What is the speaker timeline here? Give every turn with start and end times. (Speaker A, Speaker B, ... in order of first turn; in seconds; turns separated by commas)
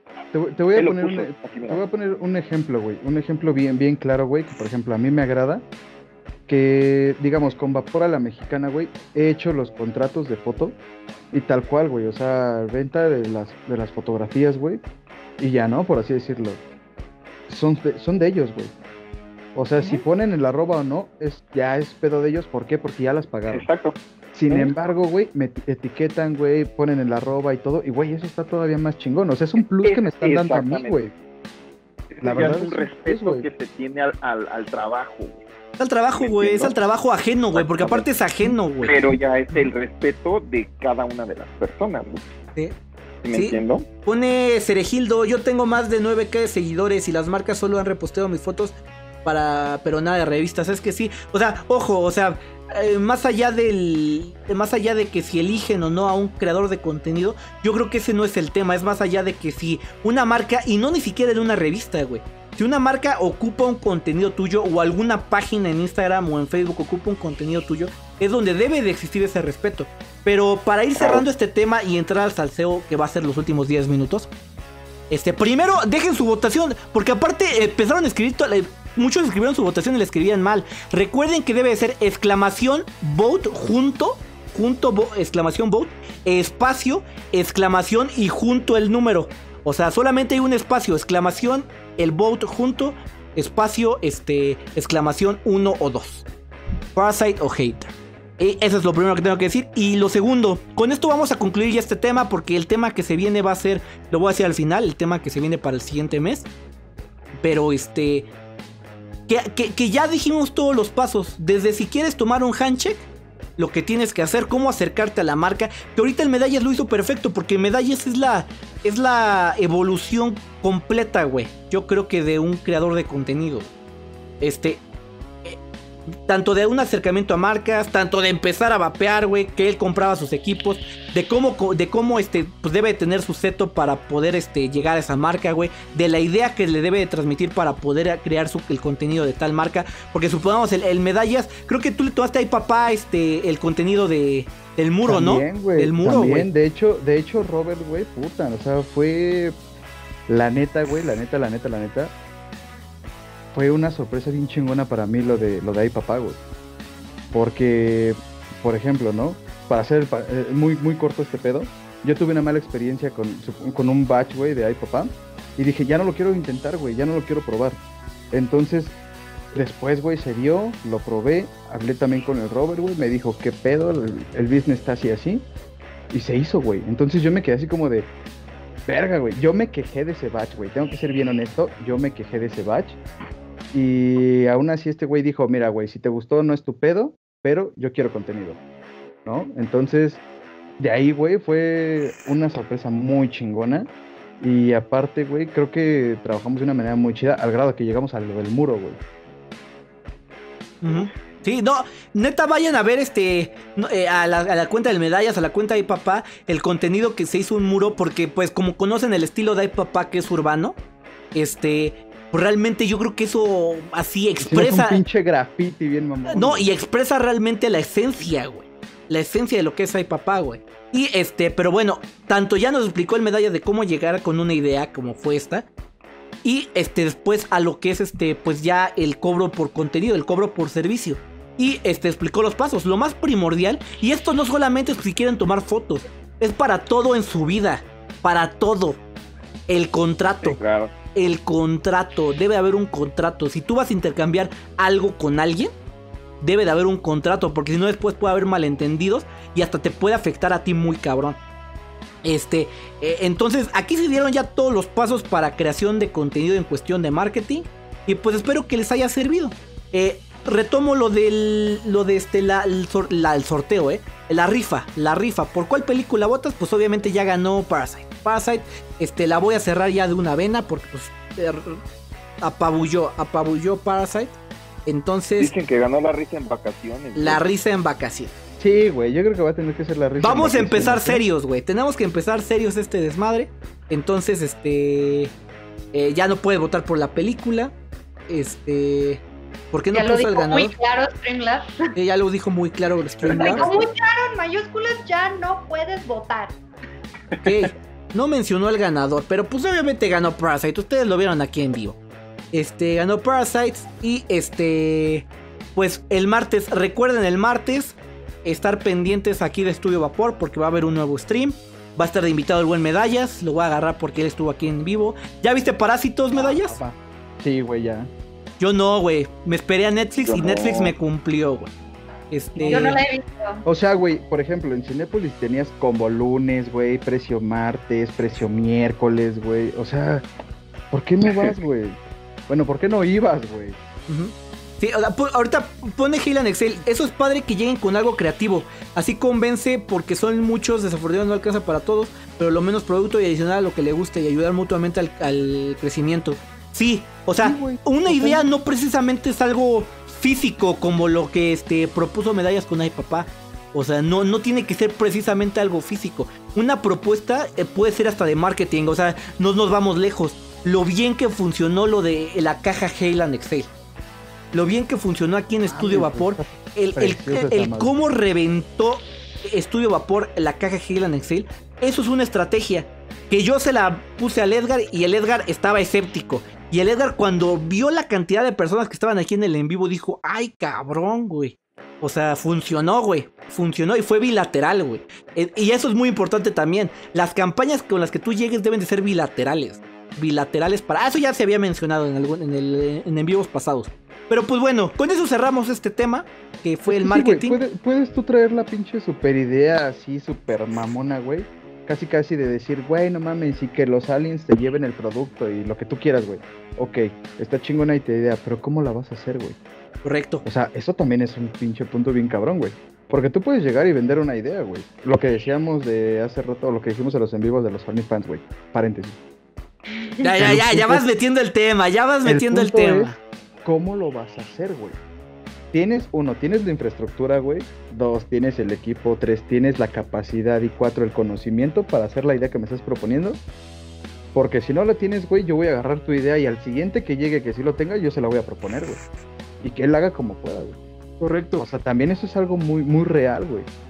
Speaker A: 0.3-5.7, Speaker B: 0.8-1.8, Speaker A: 6.5-10.8, Speaker A: 11.3-14.8, Speaker A: 15.4-16.6, Speaker A: 17.5-18.7, Speaker A: 19.6-23.6, Speaker B: 23.5-23.9, Speaker A: 24.3-31.1, Speaker B: 24.5-24.8, Speaker B: 29.8-31.1, Speaker B: 32.1-35.4, Speaker A: 32.2-33.5, Speaker C: 35.8-39.0, Speaker B: 36.1-36.8, Speaker B: 37.5-38.1, Speaker B: 38.8-42.2, Speaker B: 43.2-43.9, Speaker C: 43.3-48.7, Speaker C: 49.2-74.3, Speaker B: 71.0-71.2, Speaker C: 75.1-96.3, Speaker C: 97.0-106.5, Speaker C: 107.4-108.3, Speaker C: 109.3-123.7, Speaker C: 124.4-124.8, Speaker C: 126.3-146.5, Speaker A: 145.1-149.6, Speaker A: 150.3-152.1, Speaker A: 153.5-156.4, Speaker A: 157.3-167.8, Speaker A: 168.3-169.0, Speaker A: 169.5-175.5, Speaker A: 176.1-178.1, Speaker A: 178.9-183.0, Speaker A: 183.7-188.6, Speaker A: 189.2-190.2, Speaker A: 190.8-199.0, Speaker C: 200.8-210.8, Speaker C: 211.3-215.0, Speaker A: 214.4-216.7, Speaker C: 216.3-225.7, Speaker C: 226.4-239.0, Speaker C: 239.7-240.6, Speaker B: 240.4-240.9, Speaker C: 241.2-245.7, Speaker C: 246.4-251.4, Speaker C: 252.2-271.8, Speaker C: 272.4-275.5, Speaker B: 275.4-277.4, Speaker C: 277.1-278.3, Speaker A: 278.6-281.2, Speaker C: 280.2-285.3, Speaker C: 285.9-287.7, Speaker C: 288.3-290.7, Speaker D: 289.9-291.7, Speaker C: 291.9-293.7, Speaker B: 293.2-293.9, Speaker D: 293.4-296.6, Speaker B: 297.3-297.6, Speaker C: 297.4-302.0, Speaker C: 302.5-316.8, Speaker A: 316.3-318.1, Speaker C: 318.6-321.7, Speaker B: 320.3-320.9, Speaker C: 322.3-323.0, Speaker A: 322.6-323.0, Speaker D: 322.7-323.6, Speaker A: 323.6-330.2, Speaker A: 330.9-333.8, Speaker C: 334.1-363.7, Speaker A: 347.4-348.5, Speaker C: 364.5-397.6, Speaker A: 365.7-367.9, Speaker A: 396.9-409.6, Speaker C: 410.0-410.4, Speaker A: 410.4-419.2, Speaker C: 420.2-423.2, Speaker A: 420.4-421.1, Speaker A: 422.2-425.0, Speaker A: 425.7-433.4, Speaker A: 434.3-439.0, Speaker A: 439.6-440.8, Speaker C: 441.2-441.6, Speaker A: 441.6-443.7